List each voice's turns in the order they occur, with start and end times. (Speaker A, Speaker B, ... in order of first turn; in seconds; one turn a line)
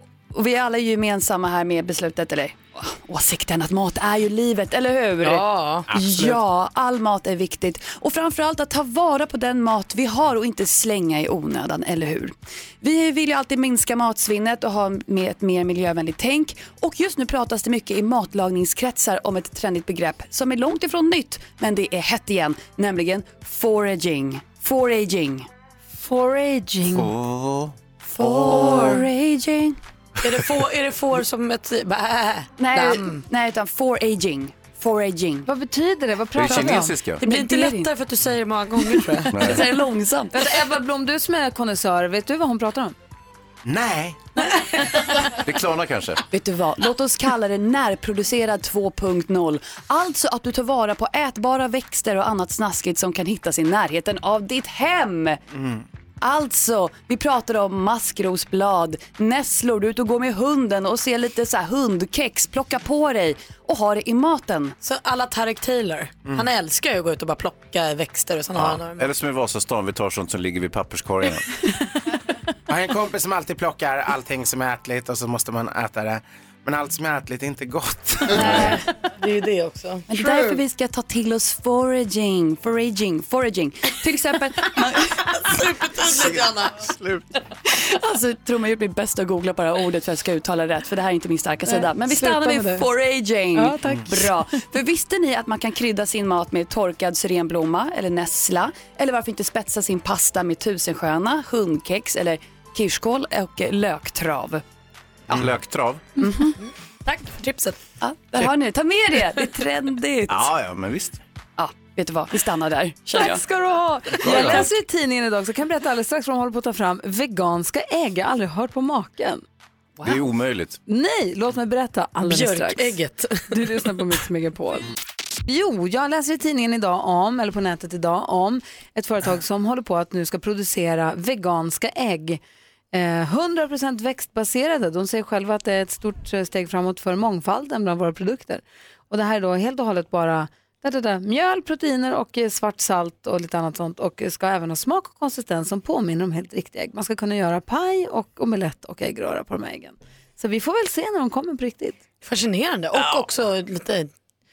Speaker A: 0.3-25.5
Speaker B: 5.2-5.9
Speaker C: 25.9-27.1
Speaker D: 26.9-27.8
Speaker B: 28.2-29.1
Speaker A: 28.2-29.8
Speaker B: 30.2-33.2
Speaker A: 32.6-35.5
Speaker C: 35.5-36.9
Speaker D: 36.4-37.2
Speaker B: 37.2-39.6
Speaker A: 37.2-37.9
Speaker D: 39.3-39.6
Speaker A: 39.4-40.4
Speaker C: 40.3-43.0
Speaker E: 43.6-44.2
Speaker D: 45.3-46.2
Speaker A: 46.3-55.4
Speaker A: 56.2-64.8
Speaker B: 64.8-69.1
Speaker D: 68.6-71.5
Speaker E: 72.7-78.7
Speaker B: 78.3-80.1
Speaker D: 78.4-78.7
Speaker A: 80.1-85.2
Speaker B: 84.8-86.9
Speaker D: 86.1-87.2
Speaker A: 87.7-104.6
Speaker C: 91.7-92.8
Speaker C: 93.5-94.3
Speaker D: 105.3-106.0
Speaker A: 106.2-106.6
Speaker B: 107.1-107.8
Speaker A: 108.0-110.5
Speaker D: 110.3-111.2
Speaker A: 111.6-113.4
Speaker B: 113.1-113.4
Speaker C: 113.1-119.4
Speaker D: 114.2-114.7
Speaker D: 120.0-120.8
Speaker C: 120.9-123.0
Speaker B: 122.2-123.9
Speaker C: 123.5-124.9
Speaker C: 125.5-132.4
Speaker C: 132.9-152.0
Speaker B: 152.2-154.1
Speaker D: 153.0-153.2